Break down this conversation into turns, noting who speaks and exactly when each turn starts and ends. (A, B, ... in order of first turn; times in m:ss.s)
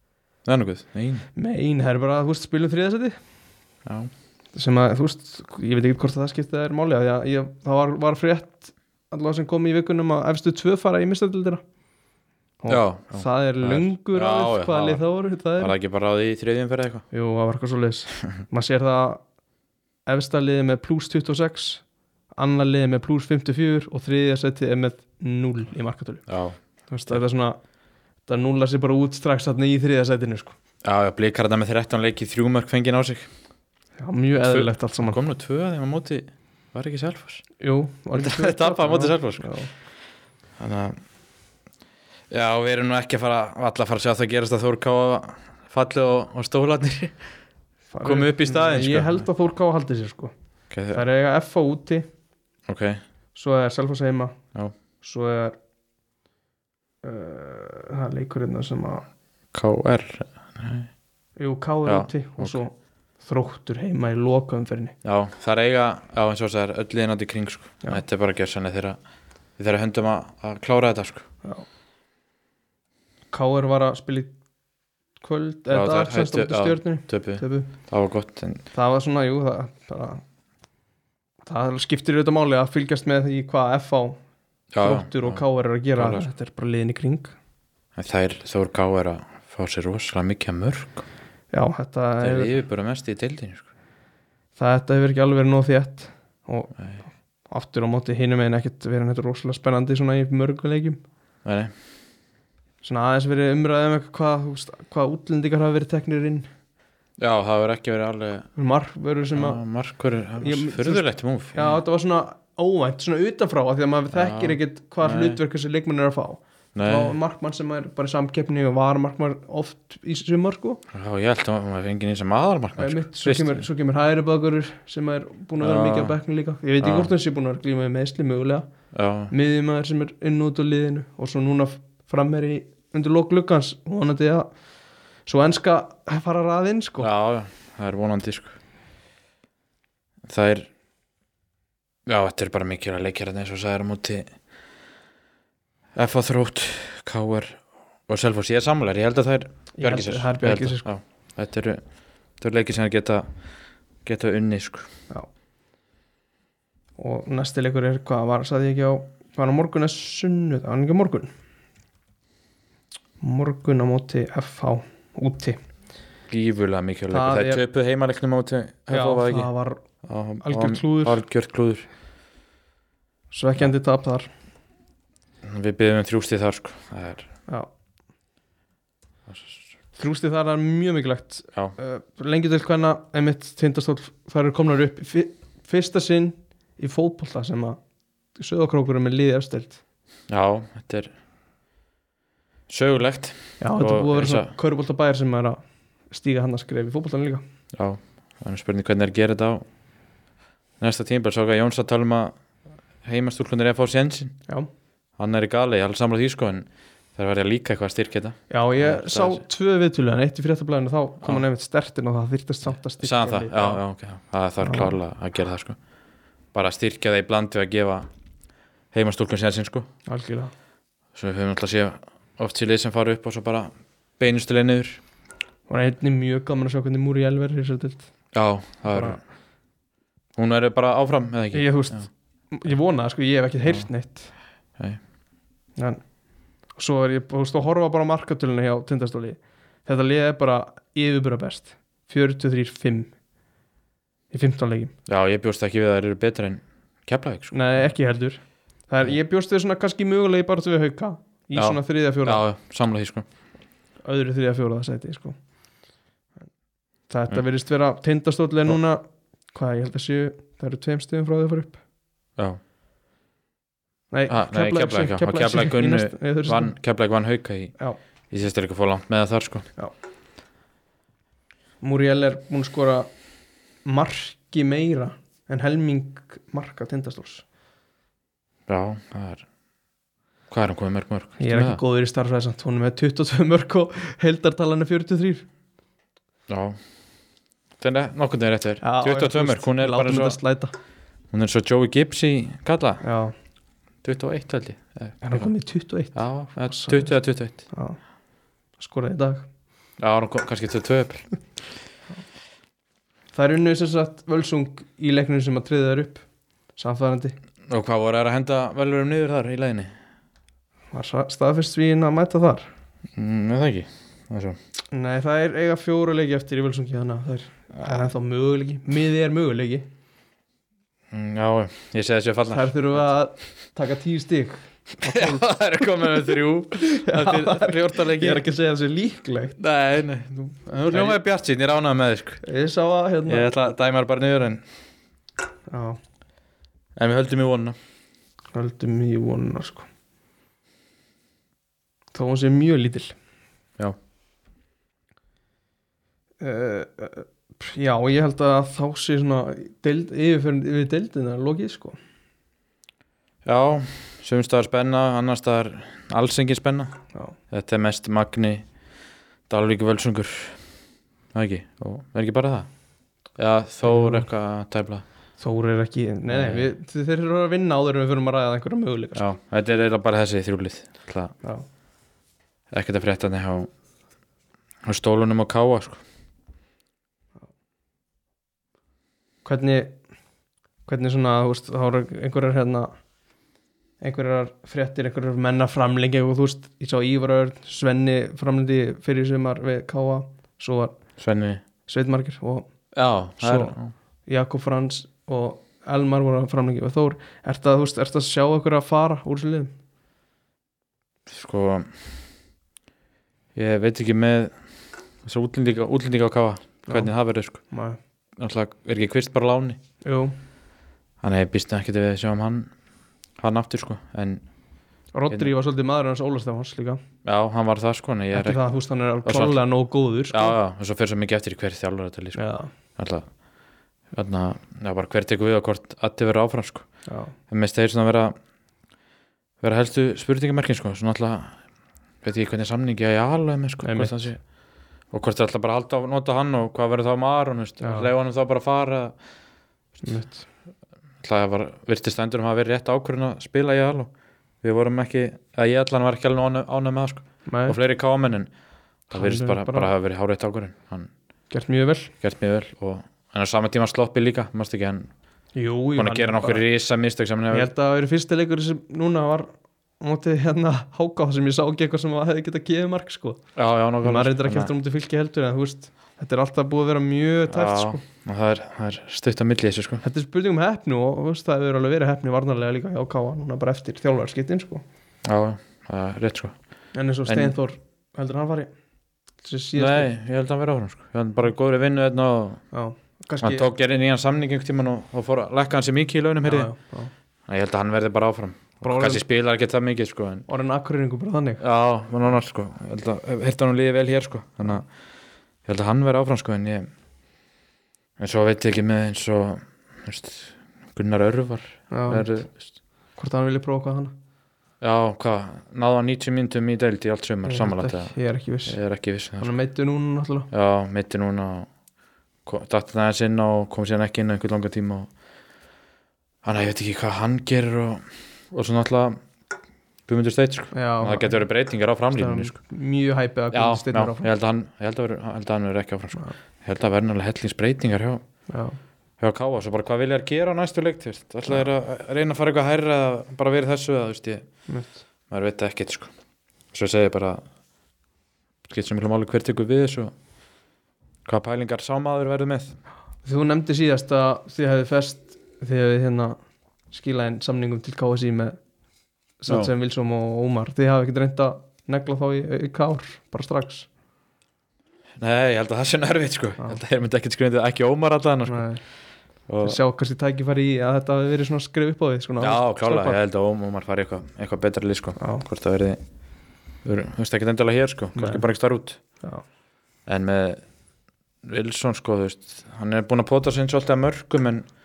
0:00.4-0:01.3 A
0:01.4-0:03.2 B
0:03.9-0:04.1 A
0:04.5-0:11.6 B
0:12.6-0:15.8 B
0:12.7-0:15.0 A
0:15.6-0:17.0 A
0:17.1-0:19.2 B
0:20.1-0:21.8 B
0:22.4-0:26.3 B
0:26.3-0:26.6 A
0:26.9-0:27.6 B
0:28.3-0:30.6 B
0:30.8-0:33.3 A
0:34.0-0:35.2 B
0:34.4-0:37.4 A
0:37.6-0:39.7 B
0:38.1-0:39.5 A
0:40.6-0:41.0 A
0:42.3-0:47.2 A
0:47.9-0:50.3 B
0:48.0-0:49.2 A
0:50.7-0:51.0 A
0:50.9-0:52.1 B
0:52.7-0:53.0 A
0:53.4-0:54.4 B
0:55.0-0:55.6 B
0:57.0-0:59.1 B
0:59.5-1:00.9 A
1:01.4-1:05.0 B
1:01.9-1:02.6 A
1:05.0-1:09.0 A
1:09.6-1:11.3 A
1:13.3-1:14.3 B
1:15.2-1:17.7 B
1:15.7-1:18.6 A
1:18.7-1:20.2 B
1:21.4-1:24.2 B
1:24.7-1:25.4 A
1:24.8-1:27.3 B
1:26.0-1:26.3 A
1:28.0-1:31.1 A
1:31.5-1:32.5 B
1:32.2-1:33.6 A
1:34.6-1:36.7 B
1:37.5-1:41.0 B
1:41.4-1:41.7 A
1:42.8-1:46.5 B
1:47.2-1:48.5 A
1:48.6-1:49.6 B
1:49.3-1:51.8 A
1:50.4-2:00.8 B
1:54.1-1:55.4 A
1:56.8-1:57.2 A
2:00.9-2:03.6 A
2:02.8-2:08.7 B
2:05.6-2:06.1 A
2:06.8-2:07.1 A
2:08.9-2:09.3 A
2:09.3-2:14.5 B
2:15.3-2:17.1 B
2:17.0-2:18.6 A
2:20.3-2:20.7 A
2:22.1-2:24.3 A
2:26.0-2:31.8 A
2:29.8-2:30.9 B
2:32.4-2:33.3 A
2:34.0-2:34.9 A
2:37.0-2:41.3 B
2:43.2-2:45.6 B
2:46.3-2:49.5 A
2:47.1-2:47.6 B
2:48.9-2:49.8 B
2:50.0-2:51.9 A
2:50.4-2:51.2 B
2:53.3-2:54.3 B
2:55.4-2:57.3 A
2:59.3-2:59.6 A
3:00.0-3:07.8 B
3:08.4-3:09.8 B
3:10.3-3:11.1 A
3:12.7-3:14.5 A
3:13.6-3:15.6 B
3:16.1-3:17.4 B
3:17.7-3:19.6 A
3:20.8-3:22.4 A
3:23.0-3:24.4 A
3:25.2-3:29.4 A
3:28.5-3:33.8 B
3:33.0-3:35.8 A
3:34.6-3:35.0 B
3:36.5-3:38.1 A
3:38.9-3:39.9 A
3:40.1-3:40.5 B
3:41.1-3:45.0 A
3:45.7-3:48.1 B
3:48.3-3:49.2 A
3:48.9-3:49.2 B
3:50.4-3:52.1 A
3:51.5-3:54.3 B
3:55.8-3:56.0 B
3:56.8-4:03.1 B
4:04.3-4:04.9 B
4:05.1-4:07.9 A
4:07.5-4:12.4 B
4:11.6-4:13.3 A
4:14.0-4:15.4 B
4:17.1-4:21.8 B
4:24.1-4:26.8 B
4:24.3-4:27.8 A
4:28.3-4:29.6 A
4:31.8-4:33.1 B
4:33.8-4:37.4 B
4:38.7-4:39.5 A
4:40.5-4:41.8 A
4:41.4-4:45.5 B
4:46.5-4:46.8 A
4:47.8-4:50.4 A
4:48.8-4:50.7 B
4:51.3-4:53.0 A
4:53.0-4:53.3 B
4:54.0-4:55.5 A
4:55.2-4:57.1 B
4:56.1-4:57.6 A
4:57.7-4:58.0 B
4:58.8-4:59.5 B
5:00.0-5:01.2 A
5:03.3-5:06.2 B
5:06.8-5:07.4 B
5:07.7-5:09.9 A
5:10.9-5:12.7 B
5:13.2-5:14.6 A
5:14.9-5:19.9 B
5:21.1-5:22.8 A
5:22.5-5:25.5 B
5:25.0-5:28.4 A
5:26.8-5:29.6 B
5:29.6-5:32.4 A
5:30.7-5:31.2 B
5:32.4-5:33.5 B
5:33.3-5:34.6 A
5:35.7-5:36.0 B
5:37.0-5:37.8 A
5:38.5-5:39.9 B
5:42.1-5:43.1 B
5:46.4-5:52.0 B
5:53.4-5:56.9 A
5:57.5-5:58.7 A
5:59.5-6:00.6 A
6:01.3-6:02.7 A
6:03.4-6:05.0 A
6:03.9-6:04.3 B
6:05.4-6:09.3 B
6:06.3-6:06.7 A
6:09.2-6:11.3 A
6:12.7-6:13.7 A
6:14.8-6:16.0 A
6:19.4-6:20.0 B
6:20.9-6:22.9 B
6:24.0-6:31.0 B
6:31.2-6:31.6 A
6:31.9-6:32.7 B
6:33.0-6:33.9 A
6:33.4-6:33.8 B
6:34.3-6:39.7 B
6:41.3-6:41.9 A
6:43.6-6:44.5 A
6:45.2-6:47.6 A
6:47.7-6:48.0 B
6:48.4-6:49.8 A
6:50.0-6:50.4 B
6:51.2-6:52.7 A
6:53.4-6:54.4 A
6:55.1-6:57.0 B
6:57.2-6:58.6 A
6:58.3-7:00.6 B
6:59.2-6:59.6 A
7:00.3-7:02.4 A
7:02.4-7:02.7 B
7:03.0-7:03.3 A
7:04.1-7:06.9 A
7:07.1-7:07.3 B
7:07.5-7:08.4 A
7:09.6-7:11.6 A
7:12.2-7:14.4 A
7:13.8-7:14.3 B
7:15.1-7:19.1 A
7:17.8-7:18.1 B
7:20.0-7:20.5 B
7:21.2-7:24.1 A
7:24.6-7:28.5 A
7:27.5-7:27.8 B
7:29.1-7:31.1 A
7:29.1-7:29.9 B
7:31.5-7:32.1 B
7:32.2-7:35.1 A
7:35.6-7:36.6 B
7:36.0-7:37.7 A
7:37.5-7:43.4 B
7:43.6-7:44.7 A
7:44.0-7:48.0 B
7:47.5-7:50.0 A
7:50.0-7:54.8 B
7:55.2-7:56.6 A
7:56.9-7:58.7 B
7:57.3-7:57.5 A
7:59.4-8:00.1 B
7:59.8-8:02.6 A
8:02.7-8:03.7 B
8:03.4-8:06.7 A
8:06.4-8:07.1 B
8:07.5-8:10.5 A
8:08.8-8:09.2 B
8:10.5-8:11.6 B
8:11.6-8:14.9 A
8:15.7-8:16.9 A
8:18.2-8:22.6 A
8:21.9-8:22.4 B
8:23.2-8:24.1 B
8:24.8-8:28.1 A
8:27.4-8:28.8 B
8:28.7-8:29.5 A
8:29.4-8:30.5 B
8:30.5-8:31.7 A
8:32.4-8:35.1 A
8:36.4-8:39.2 A
8:40.1-8:42.5 A
8:40.7-8:41.4 B
8:42.1-8:44.3 B
8:43.5-8:48.2 A
8:48.5-8:48.8 B
8:49.2-8:54.5 A
8:54.7-8:55.0 B
8:55.3-8:56.1 A
8:56.7-8:57.4 A
8:58.7-9:00.1 A
9:01.3-9:02.8 A
9:03.2-9:06.4 B
9:06.9-9:08.6 B
9:09.4-9:13.9 B
9:15.2-9:18.6 A
9:18.5-9:18.8 B
9:19.5-9:19.8 A
9:19.6-9:23.2 B
9:22.4-9:26.0 A
9:25.2-9:25.5 B
9:26.8-9:29.0 A
9:28.1-9:28.4 B
9:30.1-9:30.6 A
9:31.4-9:34.7 A